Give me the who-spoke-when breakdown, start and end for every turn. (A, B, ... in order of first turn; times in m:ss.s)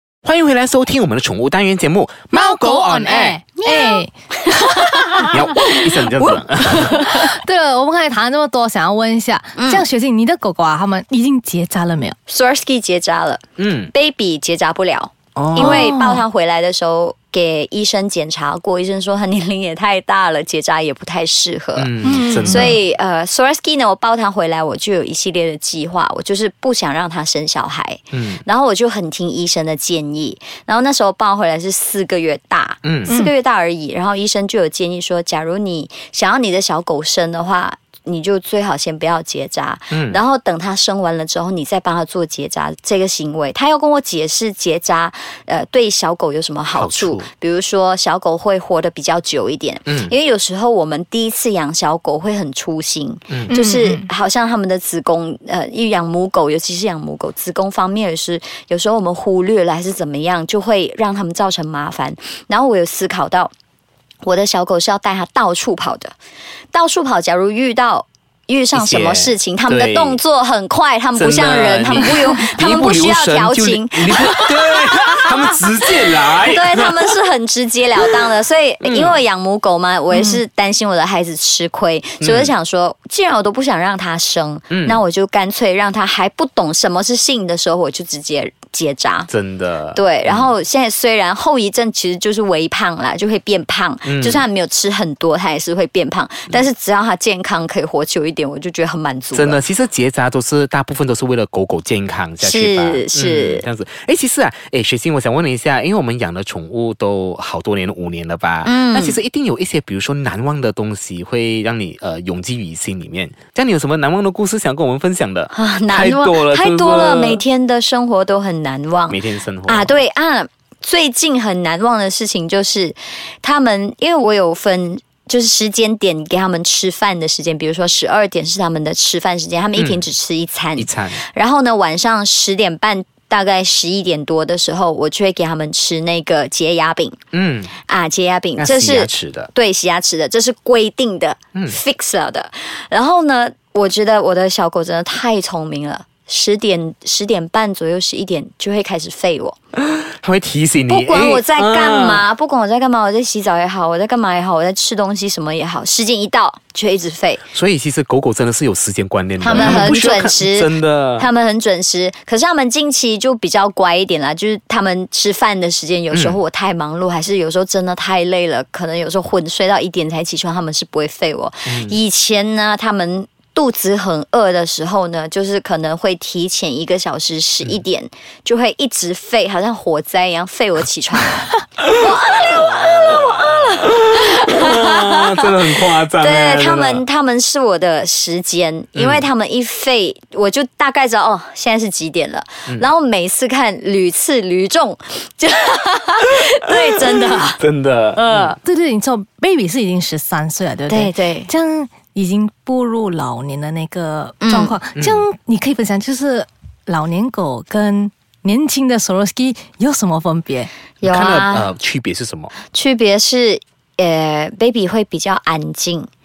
0:00.2-0:03.4 A
0:02.3-0:05.5 B
0:03.6-0:05.9 C
0:05.2-0:07.1 A
0:07.0-0:12.2 B
0:09.6-0:09.8 C
0:12.3-1:03.5 C
0:13.6-0:13.9 A
0:15.4-0:16.0 A
0:15.6-0:16.2 B
0:21.8-0:22.8 A
0:22.0-0:22.7 B
0:28.1-0:28.4 A
0:32.8-0:33.1 A
0:39.9-0:40.2 A
0:46.8-0:47.3 A
0:49.9-0:50.1 A
0:53.5-0:54.1 B
1:04.2-1:06.1 C
1:06.7-1:29.3 C
1:08.7-1:10.2 A
1:11.2-1:17.1 A
1:18.8-1:19.2 A
1:20.1-1:20.4 B
1:22.2-1:22.5 A
1:24.7-1:25.0 A
1:29.3-1:30.5 A
1:29.9-1:39.6 C
1:34.0-1:34.4 A
1:39.3-1:57.4 A
1:42.4-1:43.6 C
1:48.6-1:49.2 C
1:55.5-2:17.2 C
1:59.1-2:00.0 A
2:09.8-2:10.0 A
2:10.8-2:11.2 A
2:17.3-2:17.7 A
2:17.8-2:29.6 C
2:18.6-2:19.5 A
2:29.8-2:32.2 A
2:30.9-2:37.4 C
2:37.5-2:41.3 A
2:39.4-3:05.5 C
2:39.5-2:40.0 B
2:46.1-2:46.4 A
2:51.7-2:52.0 A
3:01.8-3:07.0 A
3:06.1-3:17.6 C
3:09.0-3:09.2 A
3:17.6-3:18.6 A
3:18.2-3:18.6 C
3:18.6-3:30.7 B
3:20.9-3:21.5 C
3:24.4-3:24.8 C
3:24.9-3:25.3 A
3:31.0-3:31.7 C
3:31.0-3:32.5 A
3:32.7-3:36.1 C